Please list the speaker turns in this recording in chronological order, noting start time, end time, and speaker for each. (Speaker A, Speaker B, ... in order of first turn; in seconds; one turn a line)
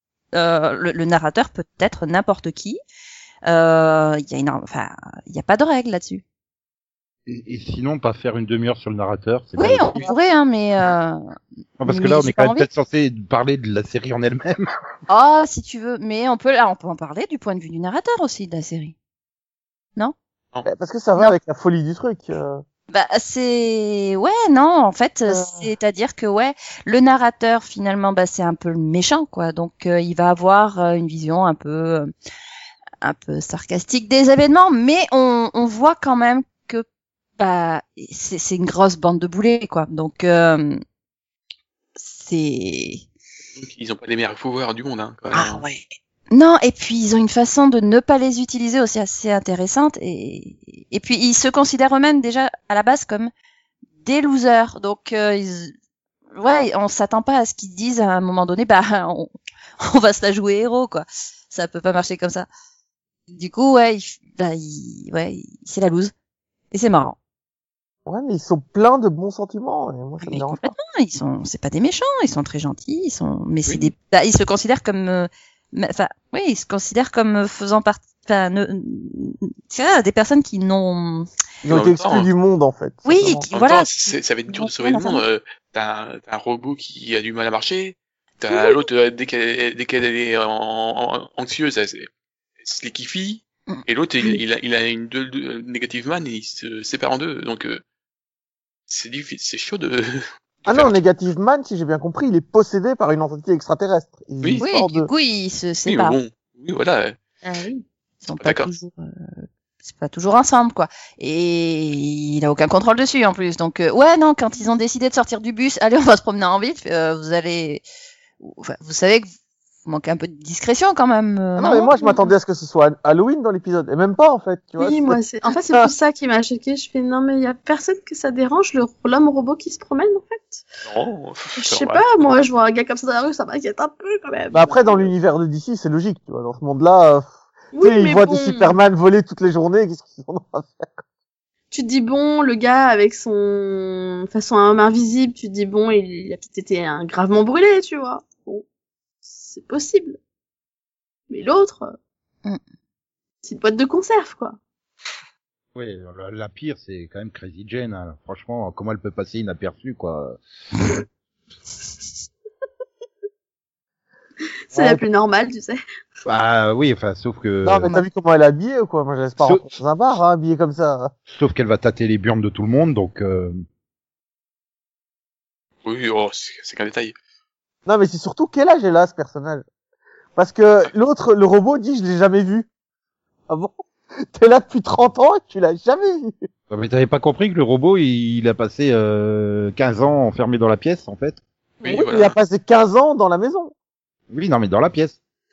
Speaker A: 0.3-2.8
Speaker A: 3.5-6.2
Speaker B: 7.3-10.1
Speaker A: 9.6-12.7
Speaker B: 11.8-14.7
Speaker A: 15.1-18.9
Speaker C: 20.6-22.6
Speaker A: 22.9-32.1
Speaker C: 25.3-25.7
Speaker A: 33.0-36.8
Speaker A: 37.4-40.8
Speaker A: 42.0-43.0
Speaker D: 43.6-45.6
Speaker A: 45.3-53.3
Speaker A: 54.0-55.7
Speaker A: 56.3-62.5
Speaker A: 63.3-66.1
Speaker A: 66.7-67.2
Speaker C: 68.0-70.7
Speaker A: 70.2-81.3
Speaker C: 81.6-83.5
Speaker D: 81.7-82.3
Speaker A: 83.0-85.2
Speaker D: 83.5-92.1
Speaker A: 88.5-88.8
Speaker D: 92.6-97.8
Speaker A: 93.7-94.4
Speaker D: 98.9-101.0
Speaker C: 100.7-105.1
Speaker A: 104.6-106.2
Speaker D: 105.8-107.2
Speaker E: 107.4-107.8
Speaker A: 108.2-117.8
Speaker D: 108.4-108.7
Speaker A: 118.4-119.3
Speaker A: 119.8-122.0
Speaker C: 121.5-125.2
Speaker E: 124.8-130.7
Speaker D: 130.8-132.0
Speaker E: 131.6-135.1
Speaker C: 134.5-141.0
Speaker E: 137.7-138.8
Speaker E: 141.7-148.6
Speaker E: 149.2-150.2
Speaker E: 151.3-151.9
Speaker E: 153.4-154.6
Speaker B: 155.8-160.4
Speaker E: 164.7-165.8
Speaker C: 164.7-165.1
Speaker B: 166.2-167.9
Speaker C: 167.6-171.1
Speaker B: 169.4-169.7
Speaker B: 171.3-173.6
Speaker D: 175.8-177.1
Speaker C: 177.8-179.6
Speaker C: 180.3-182.7
Speaker C: 183.5-183.8
Speaker C: 184.3-186.3
Speaker B: 186.7-191.4
Speaker D: 191.8-192.3
Speaker C: 191.8-193.7
Speaker B: 194.3-195.2